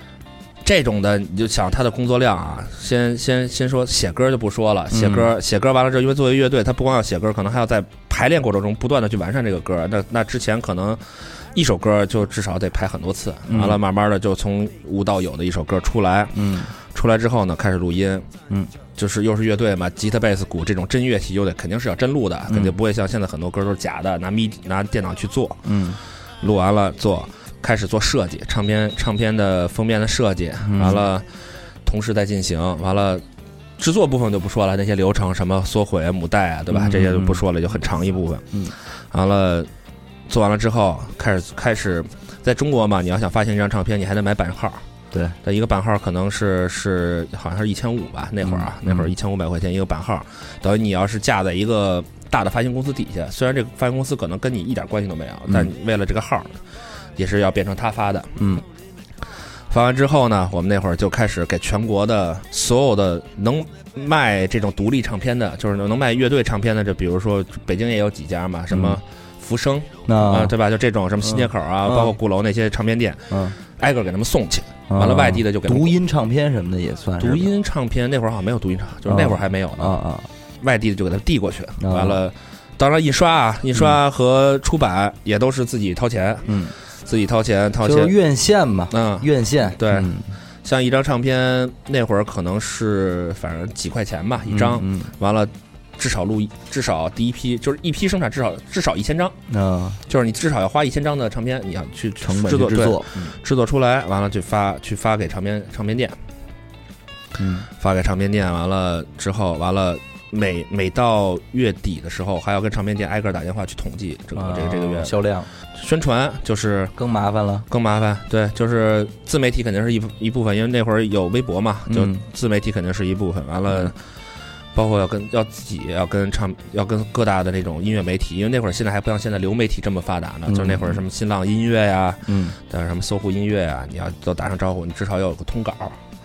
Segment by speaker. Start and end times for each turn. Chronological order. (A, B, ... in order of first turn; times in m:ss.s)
0:00.6-0:18.3 A
0:04.9-0:05.3 B
0:13.5-0:13.8 B
0:16.3-0:16.7 B
0:19.0-0:25.7 A
0:25.6-0:26.0 B
0:26.4-0:31.3 A
0:30.6-0:31.0 B
0:31.8-0:33.2 A
0:33.8-0:39.7 A
0:36.7-0:37.4 B
0:40.3-0:44.8 A
0:45.1-0:45.4 B
0:45.4-0:56.6 A
0:48.4-0:49.1 B
0:57.2-0:58.5 A
0:58.4-0:58.6 B
0:59.7-1:16.0 A
1:08.7-1:09.0 B
1:10.1-1:10.5 B
1:11.2-1:12.1 B
1:13.3-1:13.6 B
1:14.9-1:17.5 B
1:17.2-1:20.0 A
1:19.1-1:20.3 B
1:20.6-1:26.5 A
1:21.8-1:22.2 B
1:26.5-1:26.7 B
1:27.0-1:28.2 A
1:27.8-1:30.3 B
1:28.9-1:30.1 A
1:30.6-1:39.4 A
1:34.5-1:35.1 B
1:39.5-1:40.0 B
1:40.1-1:46.2 A
1:42.2-1:43.3 B
1:47.4-1:47.7 B
1:47.8-1:55.2 A
1:54.4-1:55.5 B
1:55.7-1:56.9 A
1:57.0-1:57.7 B
1:57.7-2:04.0 A
2:01.9-2:02.2 B
2:04.7-2:16.0 A
2:10.5-2:11.0 B
2:12.3-2:12.6 B